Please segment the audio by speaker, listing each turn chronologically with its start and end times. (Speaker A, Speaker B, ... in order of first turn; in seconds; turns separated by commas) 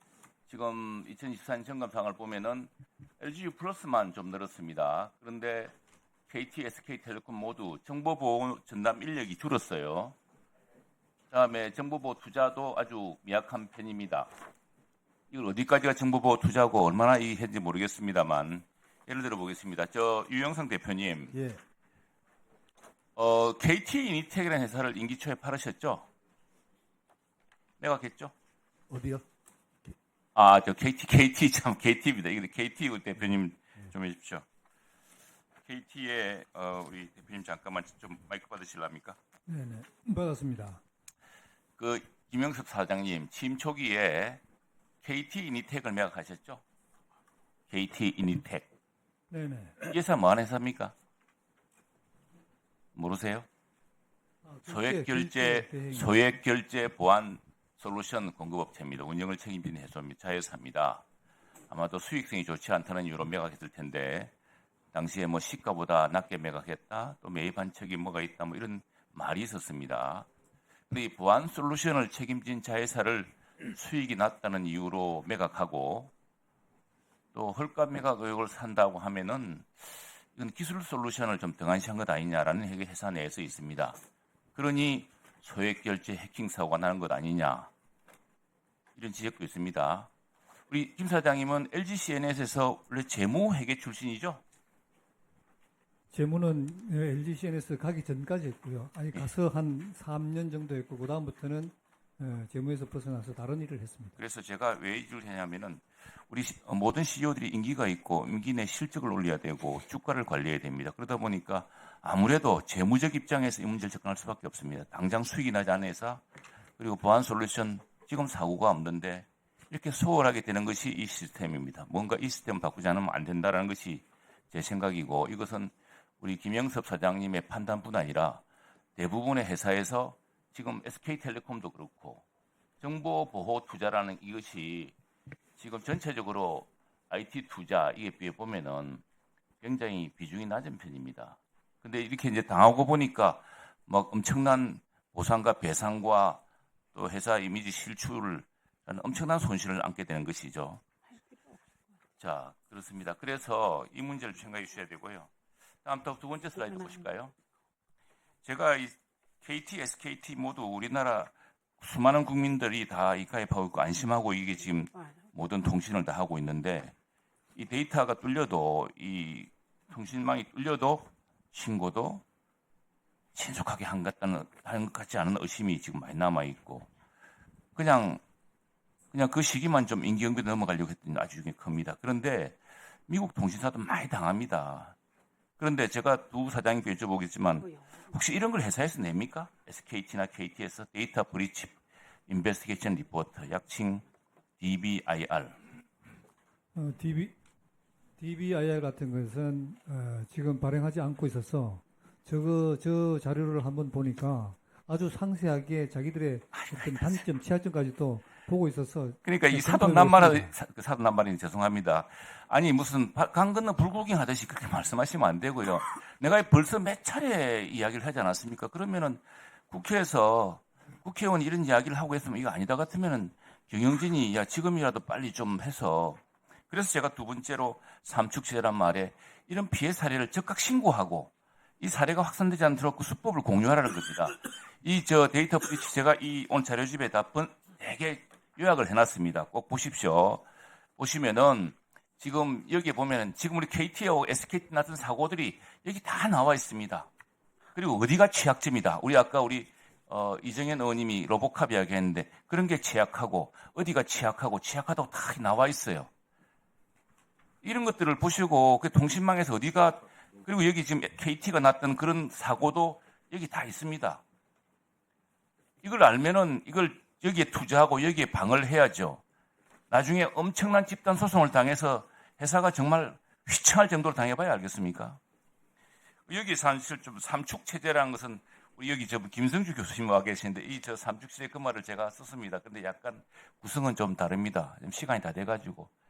Speaker A: 0.5-5.7, Speaker A: 6.3-10.2, Speaker A: 11.3-14.3, Speaker A: 15.3-21.4, Speaker B: 21.3-21.6, Speaker A: 23.2-26.1, Speaker A: 27.8-28.3, Speaker B: 28.9-29.2, Speaker A: 30.4-34.5, Speaker A: 35.7-39.2, Speaker B: 39.5-40.8, Speaker A: 41.8-44.4, Speaker A: 45.0-46.6, Speaker A: 47.7-48.7, Speaker B: 49.3-49.8, Speaker A: 49.8-50.9, Speaker A: 53.0-53.5, Speaker B: 54.4-56.2, Speaker A: 54.7-61.0, Speaker A: 61.7-64.3, Speaker A: 64.9-70.3, Speaker A: 70.9-76.1, Speaker A: 77.3-84.0, Speaker A: 84.5-87.7, Speaker A: 89.0-90.1, Speaker A: 90.7-94.4, Speaker B: 96.1-104.2, Speaker A: 104.2-116.2, Speaker A: 116.8-128.4, Speaker A: 129.0-132.2, Speaker A: 132.8-134.9, Speaker A: 135.6-139.0, Speaker A: 139.6-150.8, Speaker A: 152.2-155.3, Speaker A: 155.8-157.3, Speaker A: 158.4-166.9, Speaker A: 167.6-172.2, Speaker A: 173.3-176.9, Speaker A: 177.8-178.2, Speaker A: 179.1-184.9, Speaker A: 185.6-194.1, Speaker A: 194.6-195.6, Speaker B: 196.8-197.3, Speaker B: 198.2-210.5, Speaker A: 206.5-207.2, Speaker A: 209.2-240.4, Speaker A: 241.0-247.1, Speaker A: 247.8-256.1, Speaker A: 257.6-264.2, Speaker A: 265.8-269.2, Speaker A: 269.9-275.2, Speaker A: 276.3-285.9